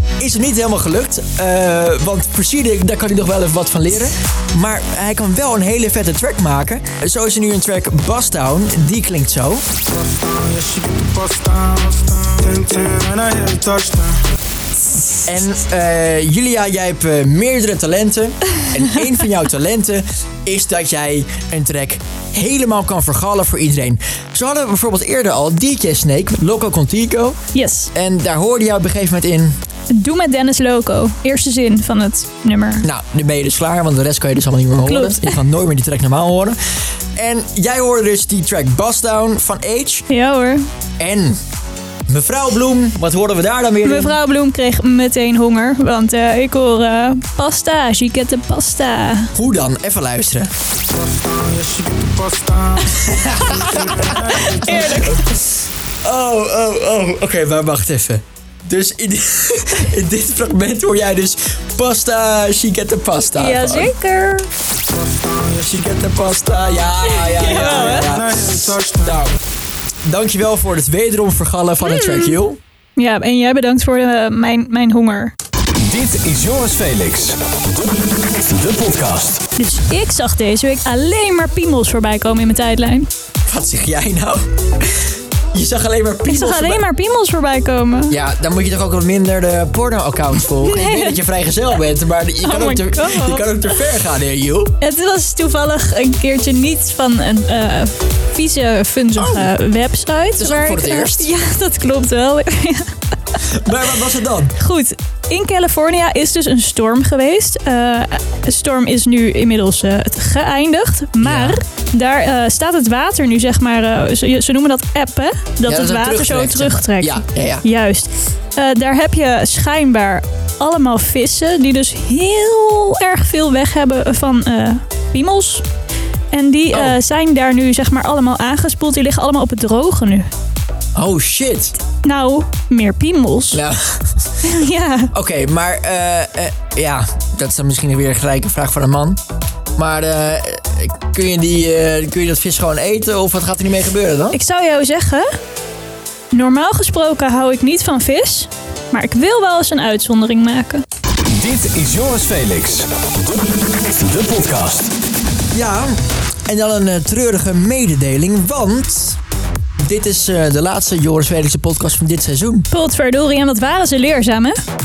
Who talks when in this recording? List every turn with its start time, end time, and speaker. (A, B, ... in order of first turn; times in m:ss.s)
0:00.2-0:09.6 A
0:09.9-0:14.2 B
0:15.2-0:27.4 A
0:27.5-0:27.9 C
0:27.9-0:29.6 A
0:29.9-0:32.8 C
0:32.8-0:36.6 A
0:34.8-0:35.3 C
0:37.2-0:40.0 A
0:40.1-0:40.6 C
0:41.0-0:41.4 A
0:42.1-0:44.2 A
0:43.8-0:49.3 C
0:49.3-0:50.5 A
0:50.9-0:55.0 B
0:53.0-0:54.0 A
0:54.2-0:55.3 C
0:56.0-1:03.9 A
1:03.4-1:04.5 C
1:04.9-1:05.6 B
1:05.6-1:09.4 A
1:07.1-1:08.1 C
1:07.6-1:09.2 B
1:10.0-1:12.6 A
1:11.8-1:12.4 C
1:13.0-1:15.3 C
1:15.7-1:17.4 D
1:18.2-1:19.4 D
1:19.6-1:23.1 C
1:23.4-1:24.4 A
1:25.5-1:26.8 A
1:26.3-1:28.2 C
1:28.1-1:34.7 A
1:30.6-1:31.2 C
1:32.4-1:33.7 C
1:34.8-1:42.9 C
1:39.2-1:39.5 A
1:40.4-1:41.3 A
1:43.5-1:44.5 A
1:44.6-2:05.6 C
1:51.2-1:51.6 A
1:55.7-1:57.6 A
2:06.3-2:10.3 C
2:06.7-2:07.0 A
2:11.0-2:11.8 A
2:12.0-2:13.6 C
2:13.5-2:14.3 A
2:14.4-2:15.1 C
2:15.1-2:19.2 A
2:19.8-2:24.4 A
2:24.3-2:25.3 C
2:26.3-2:30.8 C
2:31.2-2:34.9 D
2:35.5-2:39.2 A
2:39.8-2:42.6 A
2:42.7-2:44.6 C